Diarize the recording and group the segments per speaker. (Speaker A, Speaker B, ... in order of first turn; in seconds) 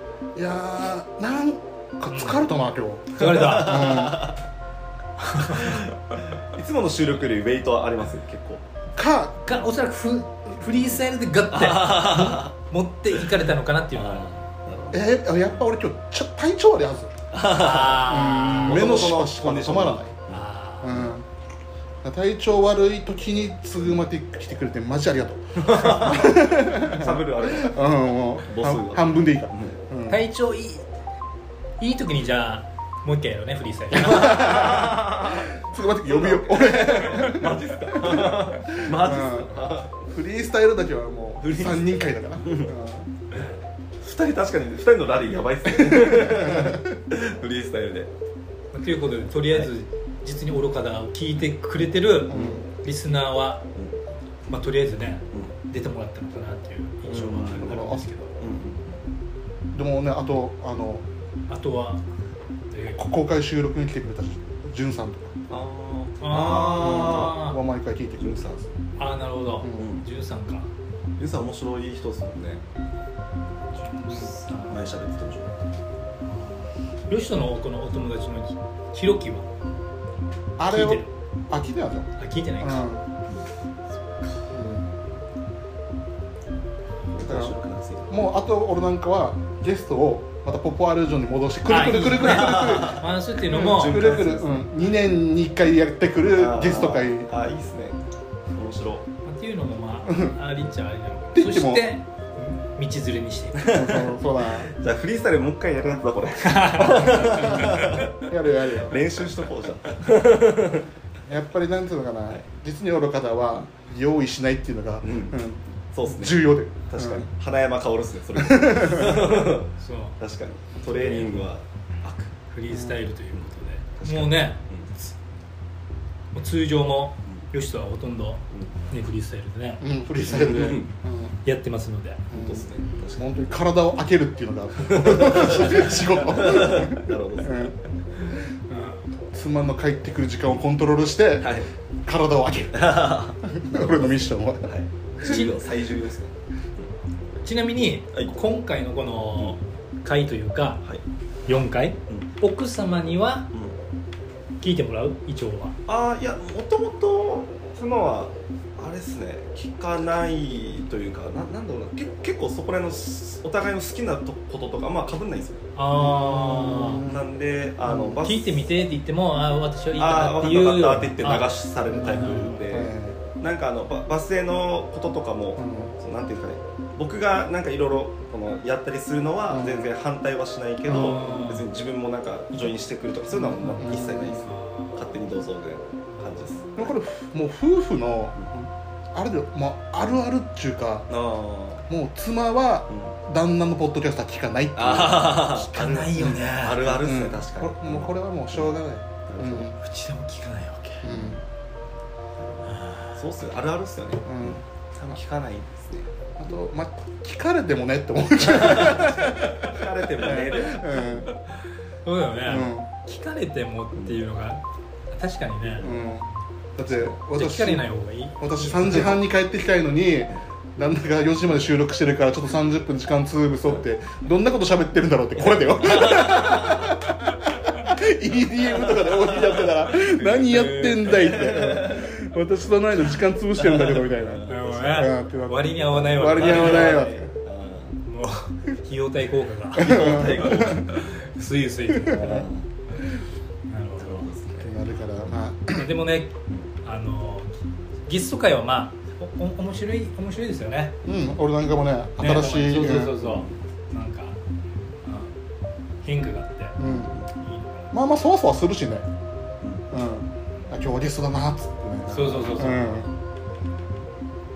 Speaker A: 0.3-4.4, 8.9-9.4, 14.9-17.1, 18.1-20.2, 20.8-21.2, 22.0-30.2, 34.0-43.1, 45.8-46.9, 52.3-52.6, 57.5-58.1, 59.7-61.0, 63.0-65.3, 66.8-68.7, 69.6-69.9, 80.6-83.0, 84.5-84.9, 87.2-87.5, 88.1-97.3, 100.1-100.3, 101.3-101.9, 103.7-104.7, 107.1-109.0, 111.3-117.3, 118.3-119.4, 122.7-123.0, 129.8-131.4, 132.3-144.7, 165.9-167.3, 167.8-168.2, 171.9-173.2, 175.6-175.9, 179.5-179.9, 180.9-181.4, 183.3-184.5, 186.8-191.1, 191.9-196.4, 196.9-199.8, 201.0-201.4, 204.3-205.2, 206.4-209.5, 210.2-211.3, 212.4-212.9, 215.8-217.8, 218.4-237.3, 239.8-240.8, 241.9-242.5, 244.6-245.9, 251.1-253.2, 256.8-257.1, 257.9-259.1, 259.9-263.1
Speaker B: 2.1-2.5, 3.1-4.2, 5.2-5.9, 9.4-14.3, 17.4-19.1, 20.3-20.9, 30.1-30.9, 31.8-34.8, 48.7-53.6, 54.5-58.3, 61.5-62.0, 62.7-63.1, 66.2-67.6, 69.0-70.7, 73.8-75.0, 76.2-79.5, 80.7-81.1, 82.2-82.9, 84.1-84.4, 91.7-94.2, 99.2-103.8, 106.6-107.7, 119.8-120.2, 120.9-121.5, 122.5-125.2, 126.3-129.8, 131.4-132.2, 135.4-136.2, 138.7-139.0, 145.2-145.6, 147.4-150.8, 151.5-153.5, 154.6-155.8, 165.8-167.1, 168.2-172.6, 180.9-181.7, 184.5-185.0, 195.7-197.1, 199.8-201.1, 202.6-203.3, 209.0-209.7, 212.0-216.1, 216.9-219.2, 230.3-231.4, 234.5-237.1, 238.1-242.4, 243.7-244.3, 245.7-247.5, 248.1-250.9, 252.2-254.4, 255.1-255.3, 256.0-256.8, 257.4-257.9, 262.1-263.1
Speaker C: 3.2-4.4, 6.5-8.6, 11.5-12.5, 13.9-15.6, 17.3-21.2, 25.6-27.8, 28.4-29.8, 34.2-40.0, 41.4-42.7, 44.0-48.1, 52.3-52.7, 57.1-57.8, 58.4-59.0, 65.5-67.4, 68.2-68.7, 69.8-70.0, 71.2-72.6, 74.7-75.6, 87.1-88.3, 92.1-94.7, 96.3-98.0, 98.5-99.1, 103.6-110.8, 115.0-122.3, 124.0-124.9, 130.2-130.9, 132.3-133.3, 134.8-137.8, 141.4-141.7, 142.8-144.1, 144.7-146.4, 155.9-165.7, 167.1-168.7, 169.9-186.9, 191.1-191.9, 192.9-193.2, 194.7-199.7, 201.1-201.4, 202.4-206.1, 208.4-211.3, 213.9-214.2, 225.5-227.0, 228.6-230.3, 231.0-232.1, 233.6-235.1, 235.9-238.0, 239.8-240.9, 242.1-242.7, 244.0-244.8, 253.2-253.6, 256.8-257.3, 259.6-259.9, 262.3-262.7